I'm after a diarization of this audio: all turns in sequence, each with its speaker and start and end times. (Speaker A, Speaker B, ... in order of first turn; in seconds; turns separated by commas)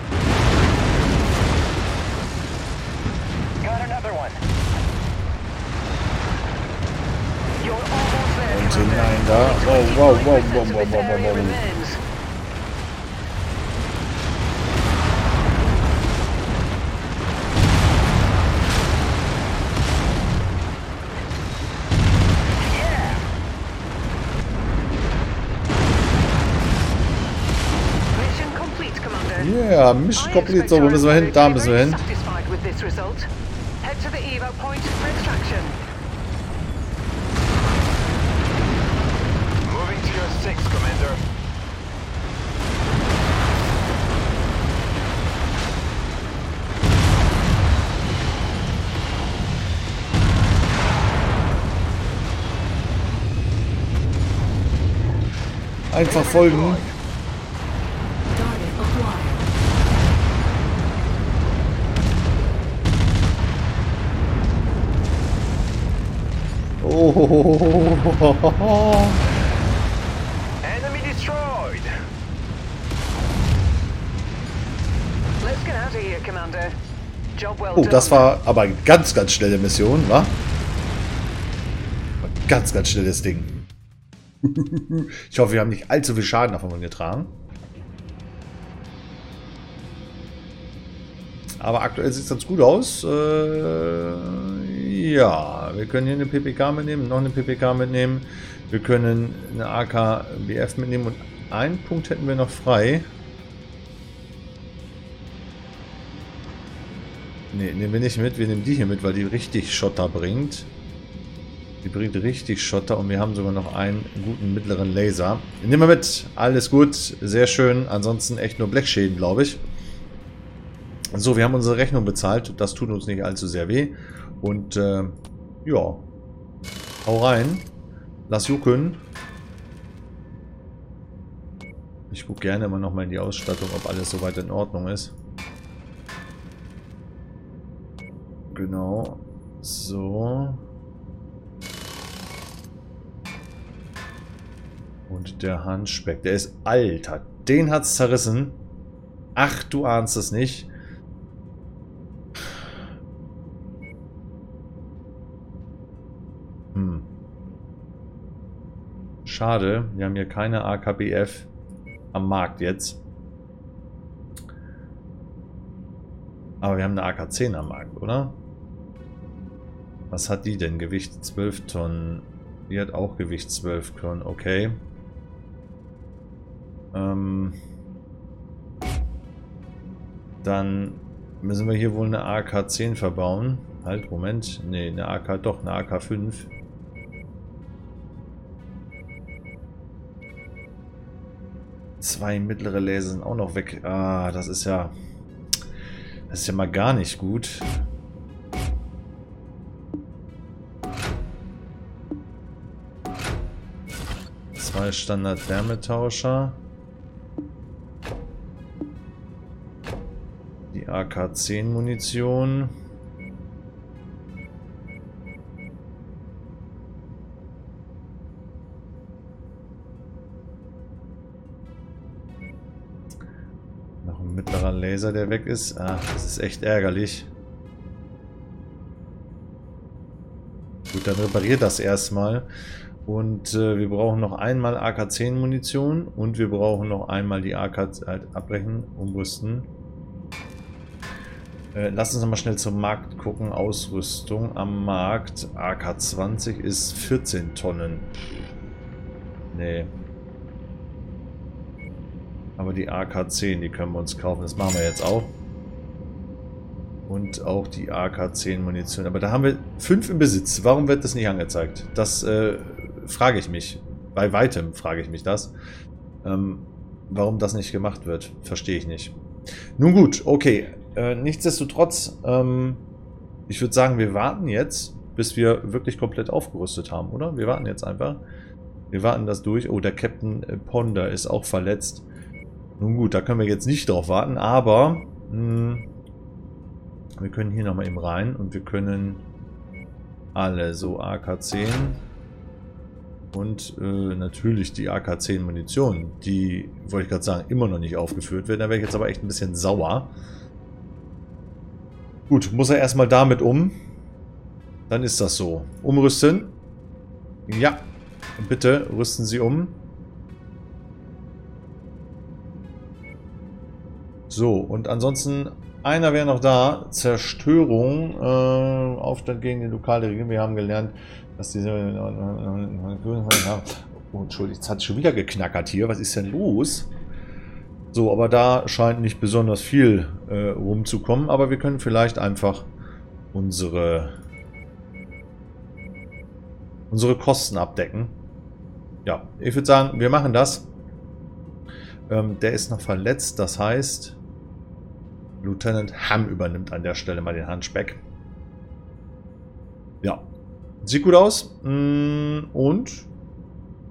Speaker A: 3.6-4.4, Speaker B: 7.6-12.0, Speaker C: 8.5-11.6, Speaker A: 22.6-23.2, Speaker B: 28.1-29.5, Speaker C: 29.4-32.0, Speaker B: 30.2-33.3, Speaker B: 33.8-35.8, Speaker A: 39.6-41.2, Speaker C: 55.9-56.8, Speaker A: 56.0-56.9, Speaker C: 66.8-69.3, Speaker A: 70.6-71.9, Speaker B: 75.4-76.7, Speaker B: 77.3-78.3, Speaker C: 77.8-80.3, Speaker C: 82.2-83.5, Speaker C: 84.4-87.3, Speaker C: 91.6-103.1, Speaker C: 107.5-110.7, Speaker C: 111.8-119.6, Speaker C: 121.1-126.0, Speaker C: 127.0-127.7, Speaker C: 128.3-129.0, Speaker C: 132.1-135.1, Speaker C: 138.5-140.6, Speaker C: 145.1-148.6, Speaker C: 149.3-150.7, Speaker C: 156.7-157.1, Speaker C: 159.2-161.5, Speaker C: 162.1-163.0, Speaker C: 166.6-168.4, Speaker C: 170.1-174.8, Speaker C: 176.9-177.6, Speaker C: 180.4-186.5, Speaker C: 192.0-194.9, Speaker C: 196.3-197.7, Speaker C: 204.6-206.6, Speaker C: 210.7-212.7, Speaker C: 224.0-227.3, Speaker C: 230.9-232.5, Speaker C: 233.1-239.7, Speaker C: 241.7-248.1, Speaker C: 249.5-249.9, Speaker C: 252.6-255.3, Speaker C: 257.1-265.5, Speaker C: 266.2-269.2, Speaker C: 269.8-272.8, Speaker C: 273.5-278.2, Speaker C: 278.9-282.1, Speaker C: 282.8-285.9, Speaker C: 287.2-289.2, Speaker C: 290.4-292.0, Speaker C: 293.3-300.1, Speaker C: 302.3-303.8, Speaker C: 304.9-306.5, Speaker C: 307.5-307.9, Speaker C: 308.4-309.8, Speaker C: 314.3-326.9, Speaker C: 327.9-332.7, Speaker C: 333.3-334.1, Speaker C: 336.9-338.1, Speaker C: 339.0-340.7, Speaker C: 342.1-344.2, Speaker C: 345.4-348.0, Speaker C: 350.8-353.1